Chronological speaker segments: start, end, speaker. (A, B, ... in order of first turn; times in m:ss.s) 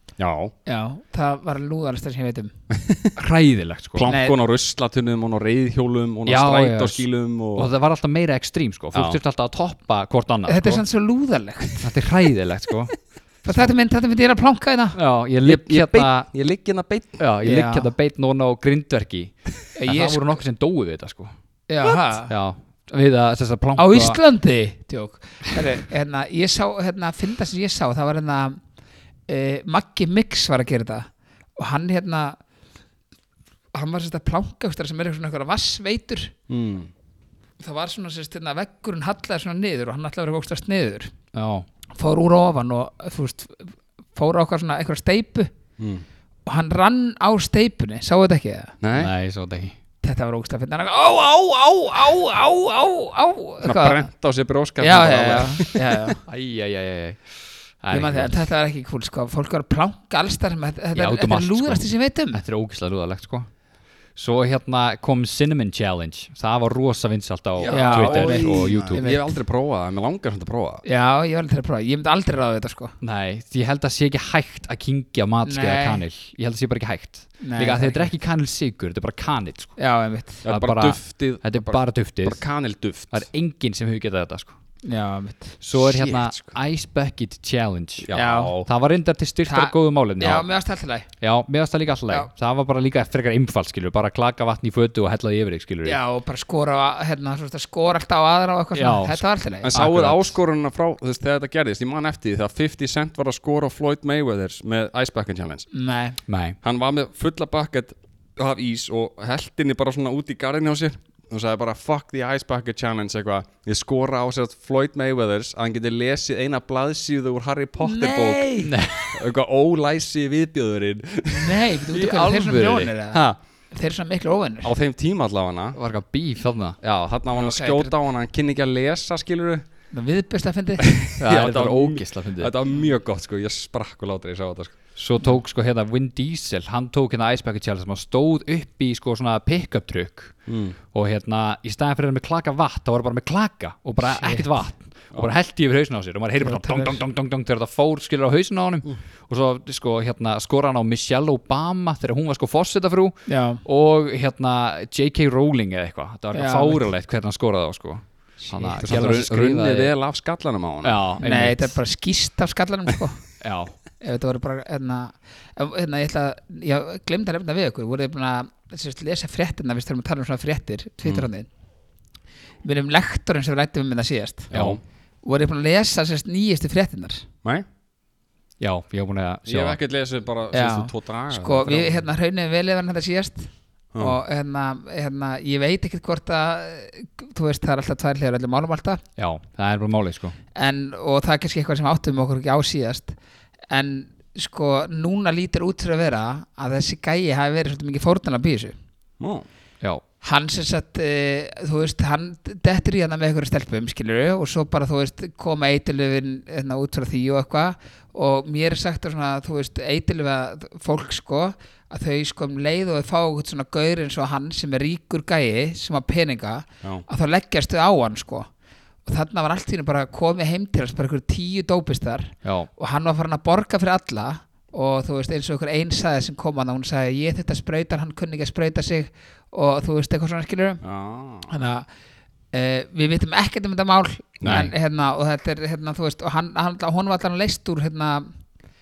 0:00.2-0:00.5 A
0:00.6-0:02.5 B
0:02.7-0:03.1 A
0:03.2-0:04.1 C
0:03.9-0:07.7 A
0:04.1-0:04.4 B
0:06.2-0:10.8 C
0:08.9-0:09.2 A
0:10.5-0:11.9 B
0:11.8-0:13.7 C
0:13.4-0:15.0 B
0:14.9-0:16.3 C
0:15.4-0:17.2 A
0:17.2-0:21.3 C
0:17.4-0:17.9 B
0:19.7-0:20.4 B
0:21.7-0:22.3 B
0:22.3-0:24.2 C
0:23.8-0:28.6 B
0:29.3-0:32.4 B
0:33.7-0:36.3 B
0:36.5-0:36.9 A
0:37.6-0:41.1 B
0:41.3-0:41.7 C
0:41.9-0:45.5 B
0:45.8-0:46.0 A
0:46.4-0:48.7 B
0:48.8-0:49.1 A
0:48.9-0:49.8 C
0:50.0-0:54.0 B
0:53.6-0:56.1 A
0:54.8-0:56.2 B
0:56.3-0:58.5 C
0:57.9-1:02.4 B
1:00.9-1:03.5 C
1:04.2-1:09.0 C
1:07.6-1:10.8 A
1:07.7-1:09.4 B
1:10.8-1:12.9 B
1:13.0-1:19.8 C
1:15.4-1:16.0 B
1:17.4-1:18.1 B
1:19.8-1:20.4 B
1:20.4-1:23.2 A
1:20.4-1:22.4 C
1:23.1-1:24.5 C
1:24.8-1:25.6 B
1:25.6-1:30.5 C
1:25.7-1:26.6 A
1:28.0-1:28.7 A
1:28.1-1:28.5 B
1:29.5-1:31.1 B
1:31.2-1:36.0 C
1:35.8-1:39.7 B
1:38.7-1:40.4 C
1:39.6-1:45.7 A
1:45.7-1:46.2 B
1:46.3-1:46.6 C
1:46.6-1:58.5 A
1:57.8-1:58.8 B
1:58.6-1:59.1 C
1:59.0-2:01.6 A
2:01.3-2:04.7 B
2:01.9-2:02.9 C
2:03.1-2:03.4 A
2:04.6-2:05.8 A
2:05.7-2:06.8 C
2:06.8-2:09.7 A
2:07.3-2:07.9 B
2:09.9-2:10.9 B
2:10.8-2:14.8 A
2:11.2-2:12.5 C
2:15.0-2:39.9 C
2:20.5-2:20.8 A
2:24.0-2:24.5 B
2:26.4-2:27.0 B
2:33.3-2:33.6 B
2:36.3-2:36.8 B
2:38.4-2:38.8 B
2:38.8-2:41.1 A
2:40.8-2:41.8 C
2:41.2-2:43.2 B
2:43.4-2:43.7 C
2:44.0-2:51.5 B
2:52.6-2:54.5 B
2:54.5-2:54.8 A
2:54.5-2:54.8 C
2:55.2-2:57.2 B
2:58.6-2:59.8 C
2:59.4-3:02.0 A
3:00.5-3:09.0 B
3:03.9-3:04.2 A
3:09.2-3:10.4 C
3:10.5-3:13.1 B
3:13.7-3:18.8 B
3:19.2-3:19.4 A
3:20.2-3:38.5 B
3:39.0-3:50.8 B
3:42.4-3:42.7 C
3:50.8-3:51.5 A
3:51.5-3:51.9 B
3:52.5-3:58.3 B
3:54.4-3:54.7 A
3:54.4-3:54.7 C